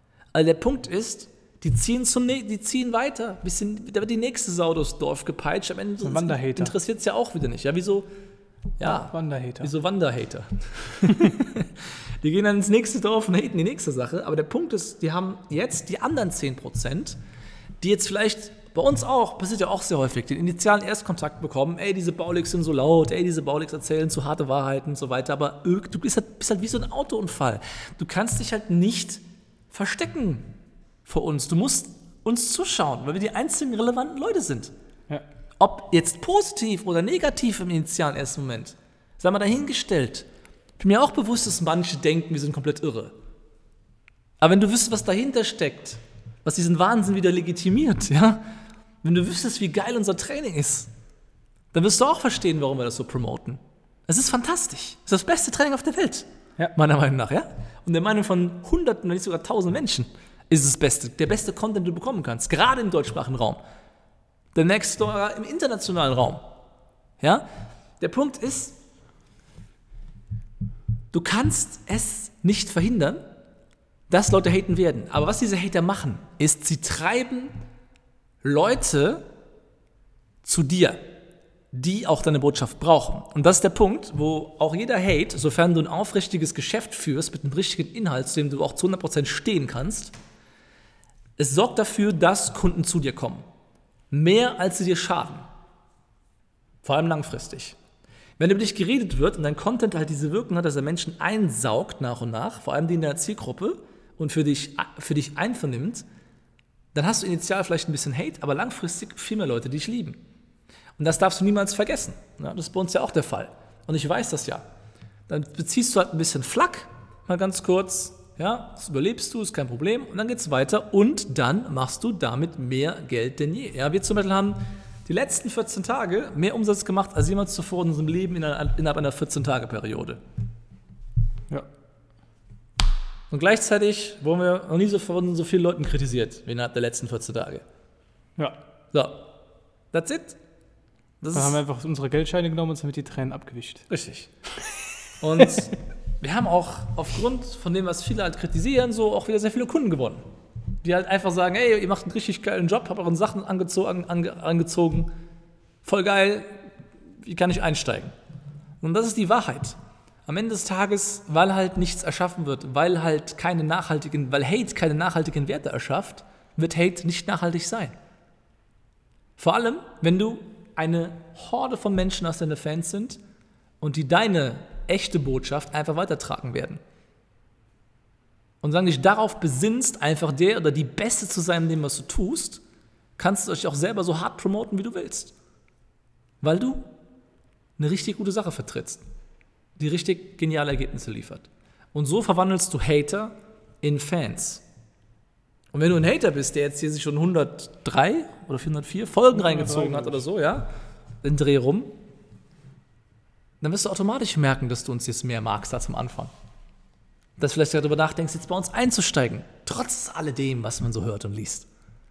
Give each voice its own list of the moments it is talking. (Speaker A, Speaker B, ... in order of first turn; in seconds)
Speaker A: 0.3-8.1, 8.8-17.2, 17.8-30.5, 31.0-34.7, 35.6-40.3, 40.8-43.1, 44.4-48.4, 49.0-50.9, 51.7-63.6, 64.5-66.4, 67.2-67.4, 68.0-68.8, 71.1-73.3, 74.1-77.5, 78.4-79.2, 80.4-81.0, 81.7-90.1, 91.4-93.4, 94.1-95.4, 96.8-97.8, 98.4-106.0, 106.9-110.2, 111.0-114.6, 115.3-130.2, 133.3-137.6, 138.9-139.3, 139.9-140.4, 141.2-141.6, 143.9-144.3, 145.2-150.2, 150.8-155.1, 155.8-156.5, 157.2-158.1, 158.8-167.9, 169.4-173.2, 173.8-176.8, 178.6-182.6, 183.2-185.3, 186.4-186.9, 187.8-189.0, 189.8-194.6, 195.7-200.7, 201.2-201.9, 203.6-206.3, 207.4-211.7
Speaker B: 6.0-6.7, 8.9-9.7, 141.3-143.8, 199.3-200.2